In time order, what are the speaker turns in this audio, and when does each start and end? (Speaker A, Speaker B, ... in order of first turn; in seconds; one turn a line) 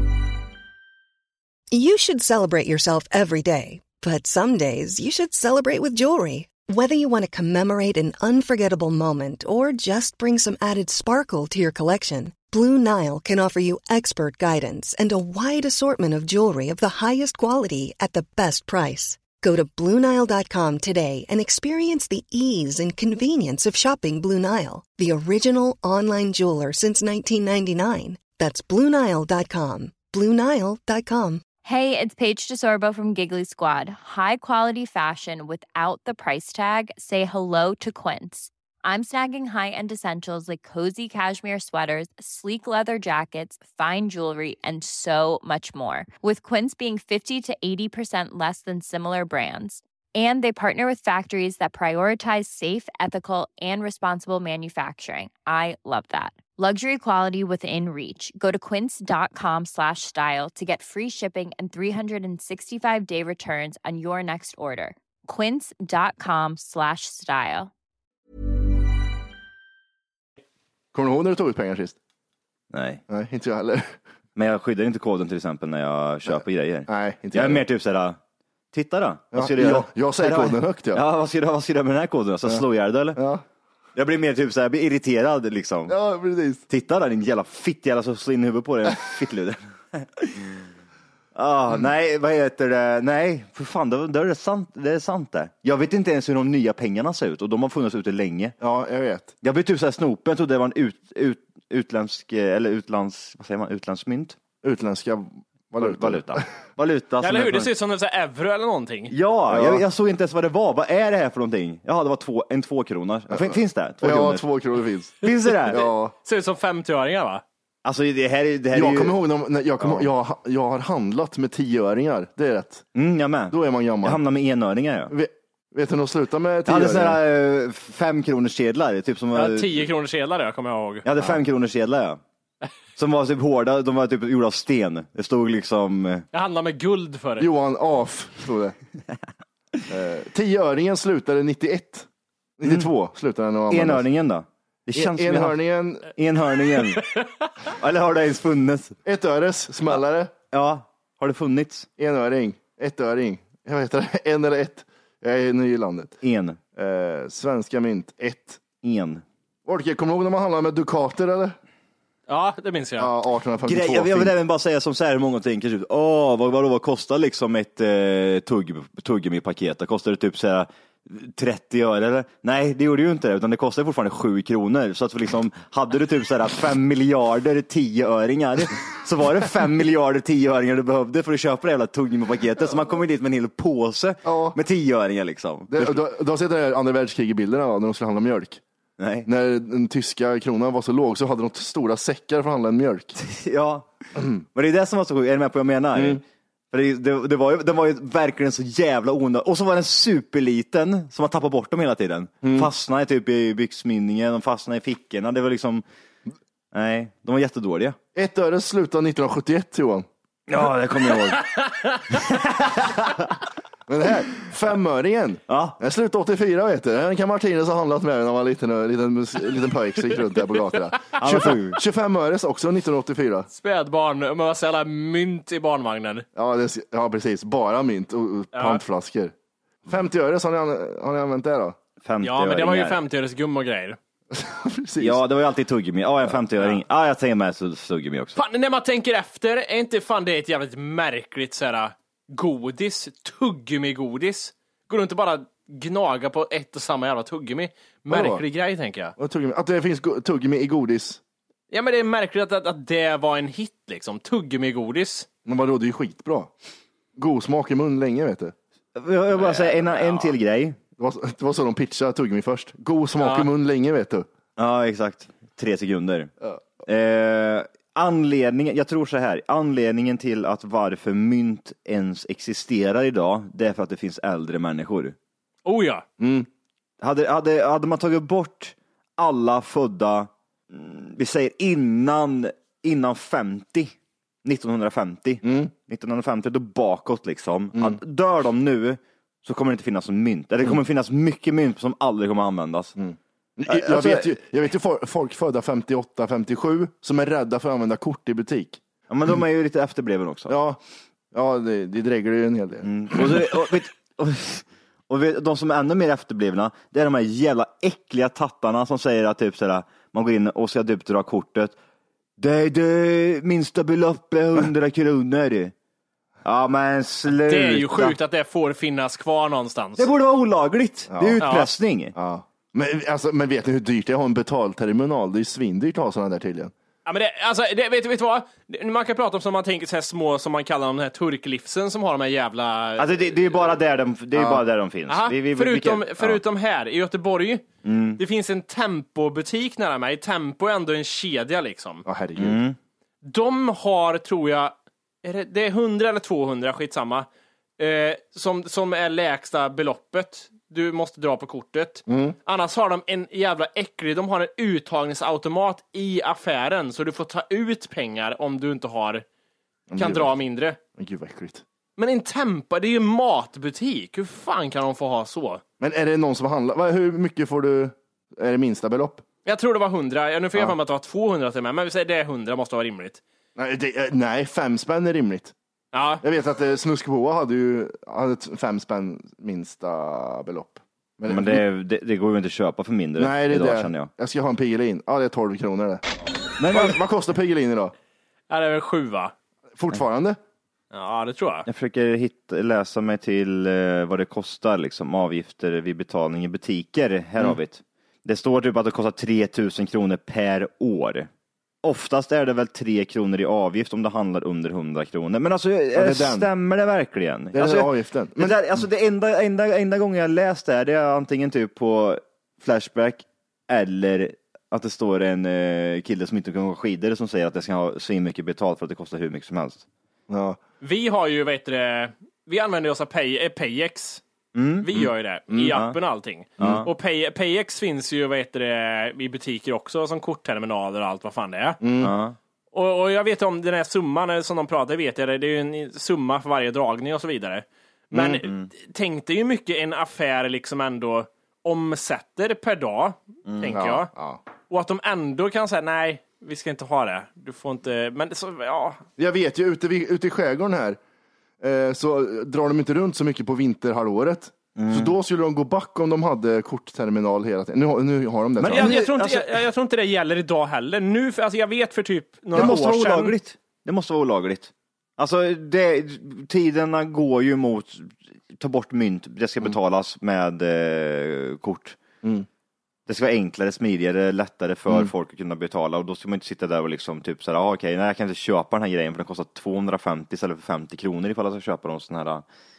Speaker A: 1.7-31.4
Speaker B: 31.6-67.7
Speaker C: 70.9-72.0
Speaker D: 72.7-73.0
Speaker C: 73.1-74.0
Speaker D: 74.3-78.2
Speaker C: 76.9-77.6
Speaker D: 78.7-83.2
Speaker C: 79.3-81.0
Speaker C: 83.2-83.4
Speaker D: 84.0-85.9
Speaker C: 85.9-86.6
Speaker D: 86.7-90.6
Speaker D: 91.3-98.5
Speaker C: 98.6-99.3
Speaker D: 99.4-104.3
Speaker C: 104.6-106.4
Speaker D: 105.8-107.7
Speaker E: 107.2-109.1
Speaker D: 109.1-114.4
Speaker C: 109.5-109.8
Speaker C: 113.3-115.2
Speaker D: 115.2-115.8
Speaker C: 115.7-116.1
Speaker E: 115.7-117.4
Speaker D: 117.8-119.2
Speaker C: 118.7-122.8
Speaker D: 119.8-120.1
Speaker D: 122.9-125.1
Speaker C: 123.5-124.2
Speaker C: 125.1-127.2
Speaker D: 126.7-129.8
Speaker E: 129.3-131.0
Speaker D: 131.0-132.2
Speaker D: 133.0-136.2
Speaker E: 136.3-137.5
Speaker C: 137.4-138.7
Speaker C: 139.9-142.1
Speaker C: 142.6-144.0
Speaker D: 143.7-147.0
Speaker C: 144.9-146.1
Speaker D: 147.7-149.0
Speaker C: 149.0-150.3
Speaker D: 150.5-151.9
Speaker C: 152.0-156.2
Speaker D: 156.2-156.6
Speaker C: 156.8-158.6
Speaker D: 158.8-159.2
Speaker C: 159.6-161.6
Speaker E: 162.3-163.1
Speaker C: 163.0-164.3
Speaker D: 163.6-186.0
Speaker C: 184.2-184.6
Speaker C: 185.7-188.6
Speaker D: 189.0-189.3
Speaker C: 189.2-193.1
Speaker D: 193.2-193.9
Speaker D: 194.5-205.8
Speaker C: 195.9-196.2
Speaker C: 202.4-202.7
Speaker D: 206.7-208.0
Speaker C: 208.1-210.1
Speaker D: 210.5-211.5
Speaker D: 212.1-213.3
Speaker C: 213.9-223.5
Speaker D: 215.5-215.8
Speaker D: 221.2-221.8
Speaker E: 223.5-226.2
Speaker C: 226.3-229.3
Speaker E: 228.5-228.8
Speaker C: 229.8-231.8
Speaker D: 232.0-233.0
Speaker E: 232.2-234.0
Speaker C: 234.3-235.2
Speaker D: 235.0-238.4
Speaker E: 238.3-249.1
Speaker C: 248.1-248.4
Speaker C: 249.2-251.2
Speaker E: 251.7-255.3
Speaker C: 255.4-256.5
Speaker C: 257.2-258.5
Speaker D: 258.9-260.8
Speaker E: 259.3-260.3
Speaker C: 261.0-264.2
Speaker E: 263.2-263.5
Speaker D: 264.6-266.3
Speaker D: 266.9-275.1
Speaker E: 275.6-276.0
Speaker C: 276.2-276.5
Speaker D: 277.0-293.0
Speaker C: 285.4-285.7
Speaker C: 293.0-298.8
Speaker D: 293.7-294.4
Speaker D: 299.1-300.5
Speaker C: 300.5-300.8
Speaker C: 301.3-303.4
Speaker D: 302.8-311.8
Speaker D: 312.4-315.7
Speaker D: 316.4-318.2
Speaker E: 317.4-320.1
Speaker D: 320.0-322.1
Speaker C: 321.1-321.4
Speaker E: 321.4-321.7
Speaker C: 322.1-326.7
Speaker E: 327.1-333.8
Speaker D: 333.0-336.4
Speaker C: 334.3-334.6
Speaker E: 335.1-337.6
Speaker D: 337.8-338.2
Speaker E: 338.2-342.0
Speaker C: 342.0-342.6
Speaker D: 342.4-342.8
Speaker E: 343.2-344.7
Speaker E: 345.2-347.3
Speaker E: 347.8-359.2
Speaker C: 352.1-352.4
Speaker C: 359.9-360.3
Speaker E: 360.0-360.8
Speaker C: 360.9-361.6
Speaker E: 362.0-365.6
Speaker C: 365.8-369.2
Speaker E: 369.4-373.2
Speaker C: 373.6-375.5
Speaker E: 375.9-376.2
Speaker C: 376.2-381.6
Speaker D: 381.3-384.1
Speaker C: 383.2-386.0
Speaker D: 386.6-387.0
Speaker C: 386.7-387.9
Speaker E: 388.5-389.3
Speaker C: 389.8-390.4
Speaker E: 390.9-391.6
Speaker D: 391.6-401.3
Speaker D: 401.8-419.8
Speaker C: 405.9-406.5
Speaker C: 407.5-408.6
Speaker C: 420.3-420.6
Speaker E: 420.8-424.2
Speaker D: 424.5-424.9
Speaker E: 424.8-431.8
Speaker C: 424.9-425.7
Speaker D: 425.7-425.9
Speaker D: 426.6-426.9
Speaker C: 431.8-432.1
Speaker D: 432.0-432.4
Speaker E: 432.7-444.1
Speaker D: 438.4-438.7
Speaker D: 443.4-443.8
Speaker C: 443.7-444.4
Speaker E: 444.7-449.0
Speaker C: 449.2-451.0
Speaker C: 451.6-458.9
Speaker D: 454.8-455.1
Speaker D: 458.6-459.6
Speaker E: 458.6-463.4
Speaker D: 462.5-472.0
Speaker D: 473.1-482.4